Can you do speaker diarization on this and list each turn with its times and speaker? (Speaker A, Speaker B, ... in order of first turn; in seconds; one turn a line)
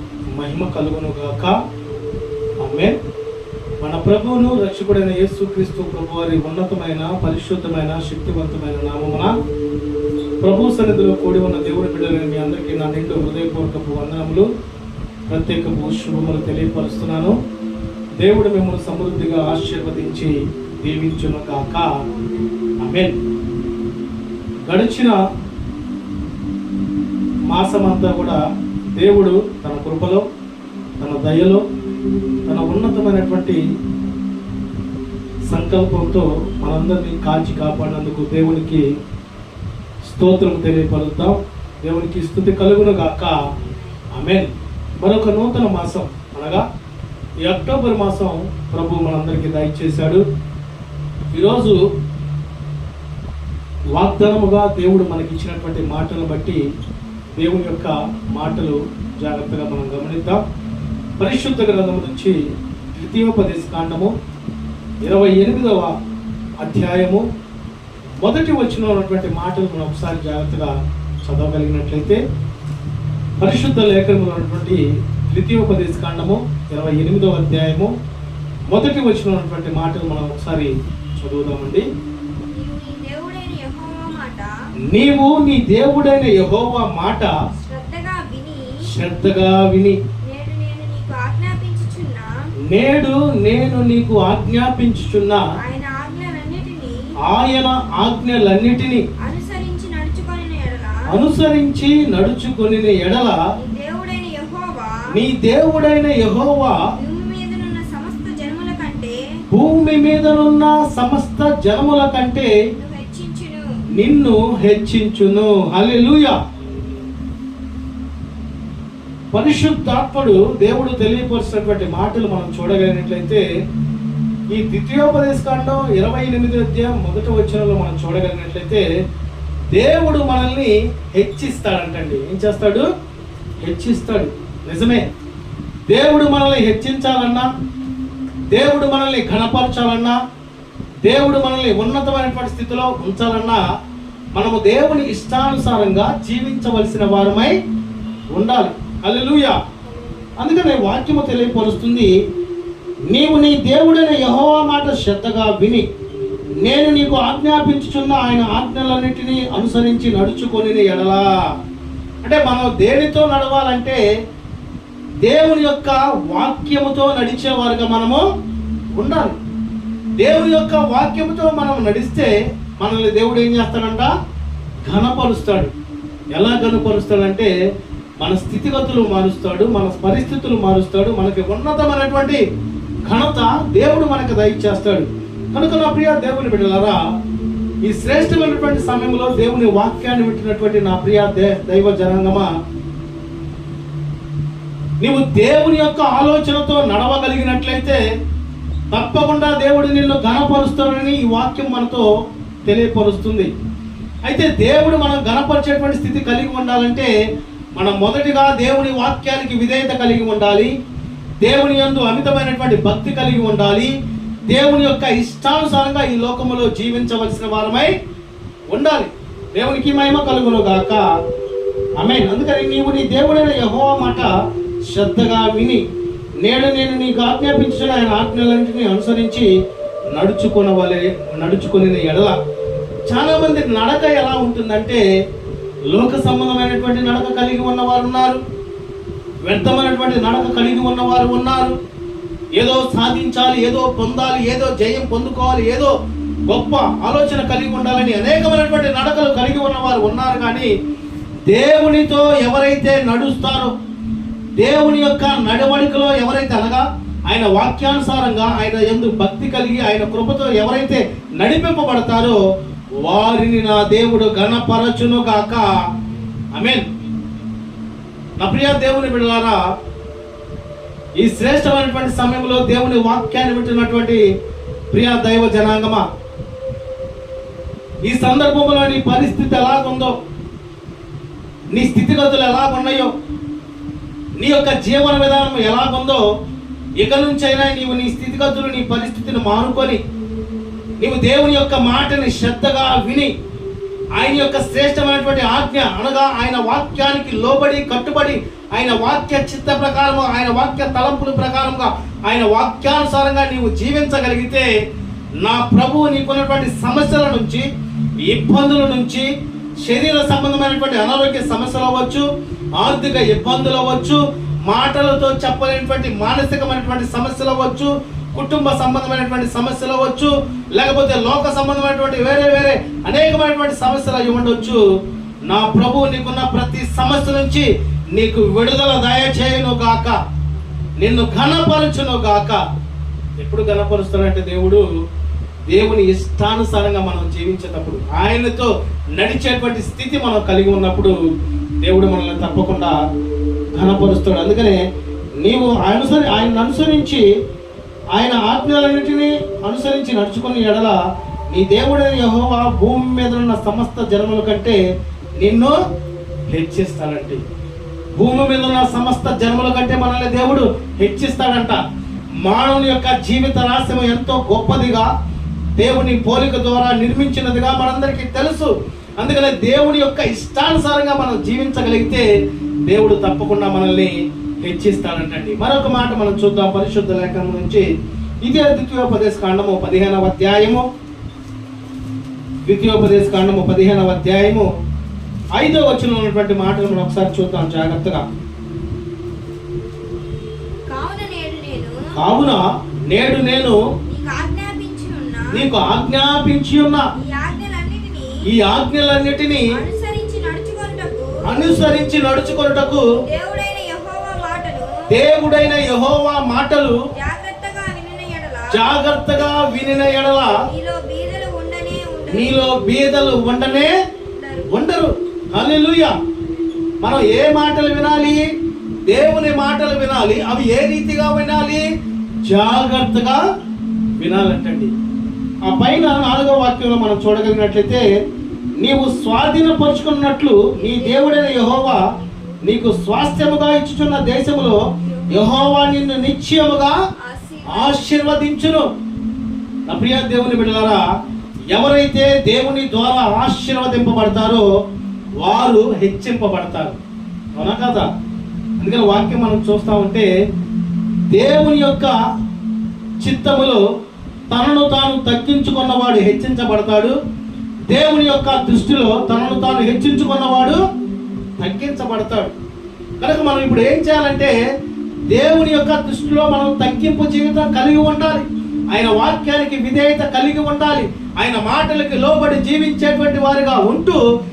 Speaker A: 0.3-1.6
Speaker A: 2.6-3.0
Speaker A: 3.8-9.3
Speaker A: 10.4-14.5
Speaker A: 15.3-17.4
Speaker A: 18.2-21.9
Speaker B: 22.1-22.5
Speaker A: 22.8-23.2
Speaker A: 24.7-25.2
Speaker A: 27.5-28.4
Speaker A: 29.0-30.2
Speaker A: 31.0-31.6
Speaker A: 32.5-33.6
Speaker A: 35.5-38.9
Speaker A: 40.1-43.4
Speaker B: 43.6-44.1
Speaker A: 44.1-46.6
Speaker A: 47.4-50.2
Speaker A: 51.3-51.8
Speaker A: 54.0-56.6
Speaker A: 57.4-60.4
Speaker A: 61.2-62.4
Speaker A: 63.0-64.1
Speaker A: 65.0-65.9
Speaker A: 66.6-67.2
Speaker A: 68.2-72.2
Speaker A: 73.4-77.9
Speaker A: 78.7-81.9
Speaker B: 82.5-84.5
Speaker A: 84.9-87.3
Speaker B: 87.5-88.8
Speaker A: 88.9-90.0
Speaker B: 90.3-92.3
Speaker A: 92.7-95.4
Speaker B: 95.6-97.0
Speaker A: 97.2-99.1
Speaker B: 99.2-101.1
Speaker A: 101.1-103.4
Speaker B: 103.6-105.1
Speaker A: 105.1-106.8
Speaker B: 107.0-109.2
Speaker A: 109.5-112.5
Speaker B: 112.7-113.7
Speaker A: 114.0-116.4
Speaker A: 119.3-123.4
Speaker A: 124.5-128.8
Speaker A: 129.7-132.9
Speaker A: 133.6-135.1
Speaker A: 135.9-137.5
Speaker A: 138.5-140.2
Speaker A: 141.1-143.6
Speaker A: 144.4-147.5
Speaker A: 148.3-149.6
Speaker B: 149.8-150.3
Speaker A: 150.4-152.1
Speaker A: 153.1-155.8
Speaker A: 156.6-161.2
Speaker A: 162.2-164.0
Speaker A: 165.2-168.2
Speaker A: 169.0-169.4
Speaker A: 170.2-174.1
Speaker A: 174.9-175.7
Speaker A: 176.3-177.5
Speaker A: 178.2-182.4
Speaker A: 183.1-187.0
Speaker A: 187.8-192.5
Speaker A: 195.0-198.0
Speaker A: 198.9-202.1
Speaker A: 202.7-203.5
Speaker A: 204.3-207.1
Speaker A: 207.8-210.7
Speaker A: 211.4-213.9
Speaker A: 214.5-217.9
Speaker A: 218.7-221.0
Speaker A: 222.0-224.3
Speaker A: 224.9-225.8
Speaker A: 226.4-229.5
Speaker A: 230.1-232.4
Speaker A: 233.1-235.0
Speaker A: 235.9-238.4
Speaker A: 239.5-241.8
Speaker A: 242.6-245.9
Speaker A: 246.5-250.7
Speaker A: 251.5-253.7
Speaker A: 254.6-262.4
Speaker A: 263.0-265.7
Speaker A: 266.5-266.9
Speaker A: 268.4-269.6
Speaker A: 271.2-274.2
Speaker A: 274.9-276.1
Speaker A: 278.0-280.1
Speaker A: 281.7-283.1
Speaker A: 284.4-286.2
Speaker A: 287.0-290.0
Speaker A: 291.0-293.3
Speaker A: 294.2-304.7
Speaker A: 305.4-307.6
Speaker A: 308.2-309.3
Speaker A: 309.8-312.3
Speaker A: 312.8-324.8
Speaker A: 325.5-330.2
Speaker A: 331.0-332.6
Speaker A: 333.4-334.9
Speaker A: 335.7-341.2
Speaker A: 341.8-342.9
Speaker A: 343.8-344.8
Speaker A: 345.4-347.2
Speaker A: 348.1-350.9
Speaker A: 351.5-354.8
Speaker A: 355.4-355.8
Speaker A: 356.5-357.4
Speaker A: 358.2-361.8
Speaker A: 362.4-365.1
Speaker A: 365.8-372.3
Speaker A: 372.9-377.9
Speaker A: 378.4-380.9
Speaker A: 382.7-384.7
Speaker A: 385.6-388.2
Speaker B: 390.9-392.1
Speaker A: 392.2-393.8
Speaker B: 394.1-395.6
Speaker A: 395.5-397.1
Speaker B: 397.2-398.4
Speaker A: 398.5-399.7
Speaker B: 399.7-401.9
Speaker A: 401.4-403.1
Speaker B: 403.2-405.0
Speaker A: 405.1-407.0
Speaker B: 407.1-412.7
Speaker A: 408.7-410.6
Speaker A: 412.3-413.9
Speaker B: 414.4-414.8
Speaker A: 414.7-416.2
Speaker A: 417.0-418.5
Speaker A: 419.1-421.9
Speaker A: 422.4-423.4
Speaker A: 424.2-424.9
Speaker A: 425.6-428.1
Speaker A: 428.8-432.1
Speaker B: 430.8-432.6
Speaker A: 432.6-437.0
Speaker B: 435.0-435.7
Speaker B: 437.2-438.5
Speaker A: 437.7-438.9
Speaker A: 439.9-441.0
Speaker A: 441.7-444.7
Speaker A: 445.4-447.0
Speaker A: 447.6-448.1
Speaker A: 448.8-450.3
Speaker A: 451.3-452.1
Speaker A: 453.2-453.8
Speaker A: 454.5-457.2
Speaker A: 457.9-460.8
Speaker A: 461.6-462.5
Speaker A: 463.2-464.6
Speaker A: 465.3-474.2